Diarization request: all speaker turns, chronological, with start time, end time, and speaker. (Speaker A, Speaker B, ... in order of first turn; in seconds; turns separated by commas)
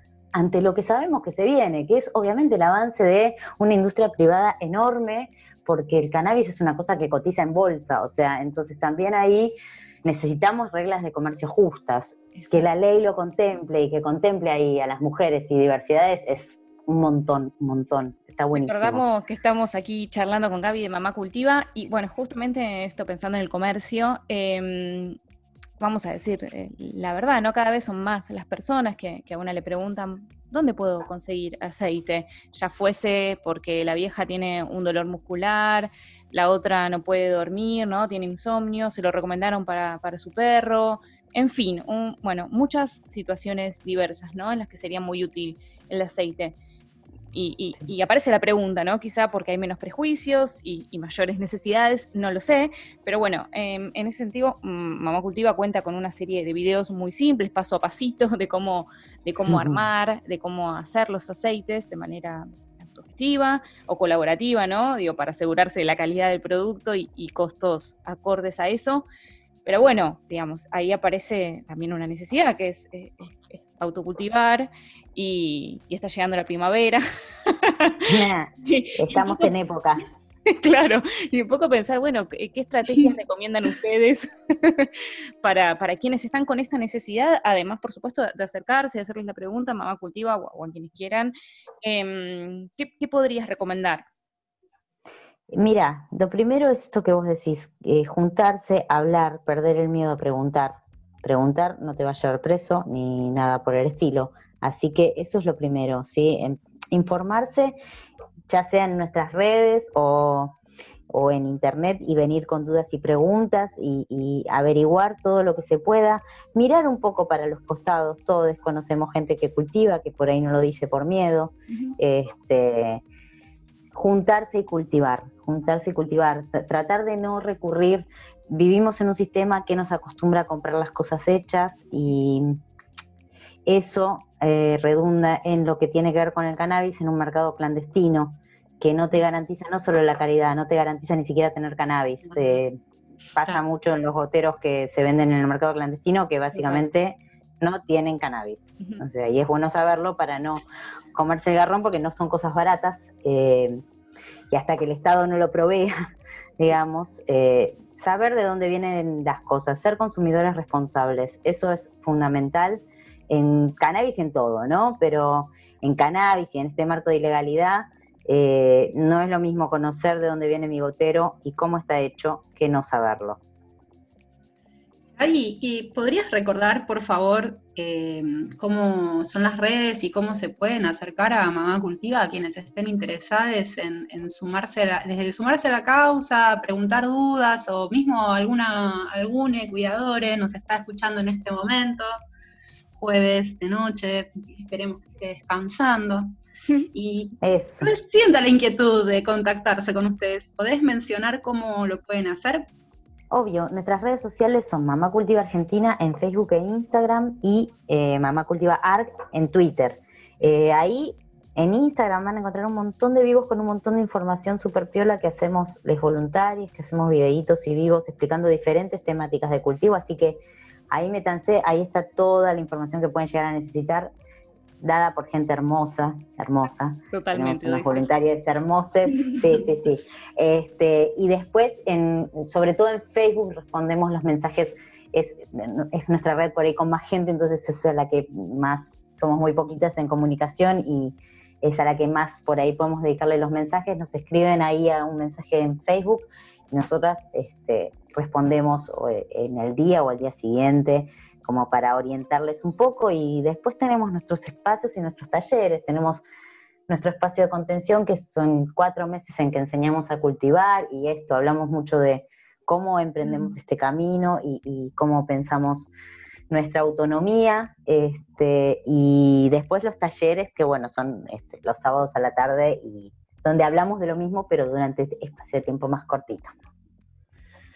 Speaker A: 0.3-19.0, Speaker B: 12.4-12.6, Speaker B: 18.6-25.2, Speaker B: 25.8-46.5, Speaker B: 47.3-69.1, Speaker A: 59.5-59.8, Speaker B: 69.7-78.1, Speaker A: 78.1-80.0, Speaker B: 78.6-79.5, Speaker B: 80.5-94.1, Speaker A: 95.5-107.8, Speaker A: 108.5-110.5, Speaker A: 111.1-123.0, Speaker A: 123.9-132.6, Speaker A: 133.7-142.8, Speaker A: 143.4-150.6, Speaker A: 151.2-153.8, Speaker A: 154.5-173.4, Speaker C: 175.2-192.1, Speaker C: 193.0-196.3, Speaker C: 196.9-202.7, Speaker A: 197.4-197.9, Speaker A: 203.3-220.4, Speaker A: 220.9-224.1, Speaker A: 224.8-256.2, Speaker B: 227.1-228.1, Speaker A: 256.9-265.9, Speaker A: 266.5-276.5